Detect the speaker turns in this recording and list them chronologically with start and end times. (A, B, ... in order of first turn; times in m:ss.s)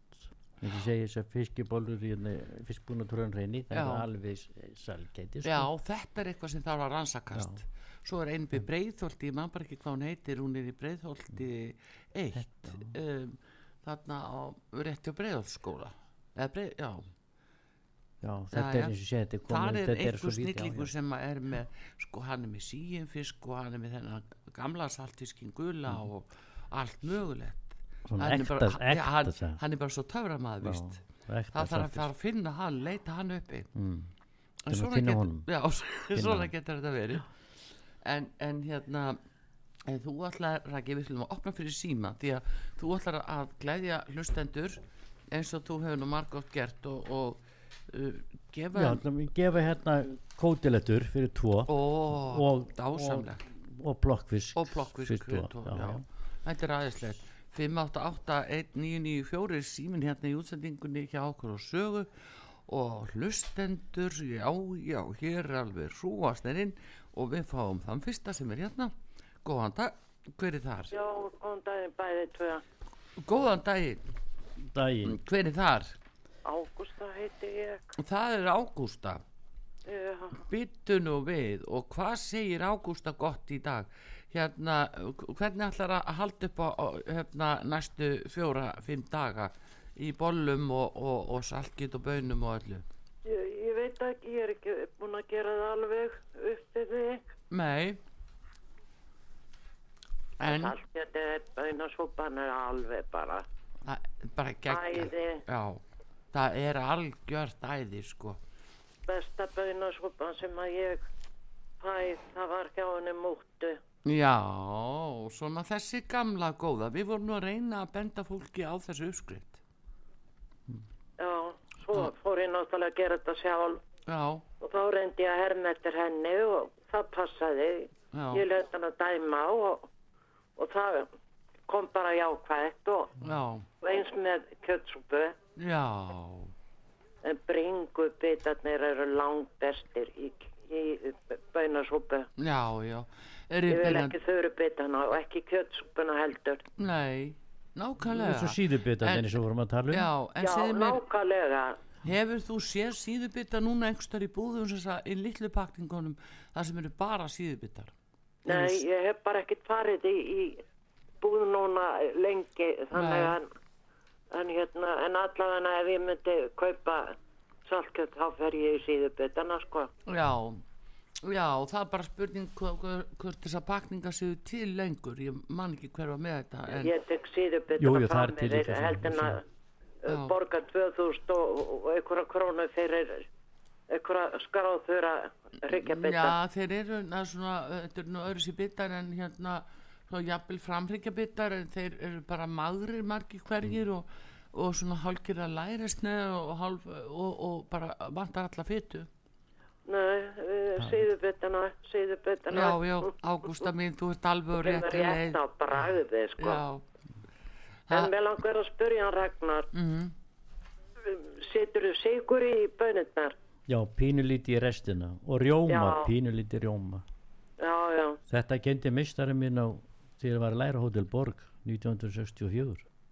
0:00.6-0:05.7 A
0:03.7-0:04.0 B
0:05.4-0:17.1 B
0:07.3-0:07.6 A
0:12.3-0:12.9 A
0:18.2-0:20.9 A
0:18.5-0:18.9 B
0:19.5-0:31.0 B
0:28.0-0:29.6 A
0:30.6-0:32.1 A
0:31.5-0:33.7 B
0:33.7-0:34.1 A
0:34.6-0:37.3 B
0:34.7-0:35.5 A
0:36.1-0:36.5 A
0:38.0-0:39.2 B
0:39.8-0:49.0 B
0:48.7-0:56.0 A
0:51.7-0:53.4 B
0:54.6-1:02.1 B
1:02.7-1:10.9 B
1:10.9-1:12.6 C
1:13.2-1:14.0 B
1:14.6-1:15.2 A
1:15.0-1:16.0 B
1:16.4-1:17.9 C
1:18.0-1:19.2 B
1:19.9-1:20.4 C
1:20.3-1:32.8 B
1:33.2-1:37.3 C
1:37.5-1:38.0 B
1:40.4-1:40.7 B
1:40.4-1:43.4 C
1:43.8-1:45.8 B
1:44.7-1:45.4 C
1:46.3-1:48.4 B
1:49.1-1:51.0 C
1:51.8-1:53.8 C
1:54.0-1:59.6 B
2:01.2-2:03.8 C
2:04.0-2:04.4 B
2:04.6-2:09.9 C
2:08.1-2:08.4 B
2:10.6-2:11.1 C
2:11.7-2:13.2 C
2:13.2-2:13.6 B
2:13.8-2:15.4 C
2:15.6-2:16.5 B
2:17.2-2:22.3 C
2:22.4-2:24.2 B
2:23.7-2:26.6 C
2:26.8-2:29.4 B
2:28.0-2:30.1 A
2:29.9-2:31.0 B
2:30.4-2:31.8 C
2:32.0-2:37.9 B
2:38.4-2:40.6 C
2:38.5-2:38.8 B
2:41.2-2:43.5 C
2:42.9-2:43.4 B
2:44.3-2:49.9 C
2:50.1-2:50.6 B
2:51.2-2:56.9 B
2:56.8-2:59.4 C
2:57.8-2:59.4 A
3:00.0-3:03.2 C
3:00.1-3:00.3 B
3:03.9-3:06.4 C
3:05.7-3:19.1 B
3:19.9-3:23.1 C
3:22.5-3:25.4 B
3:24.6-3:26.6 C
3:26.4-3:26.8 B
3:27.9-3:29.7 C
3:29.7-3:30.1 B
3:31.0-3:33.3 C
3:33.7-3:37.0 A
3:35.7-3:36.1 C
3:37.6-3:38.2 C
3:38.3-3:42.8 A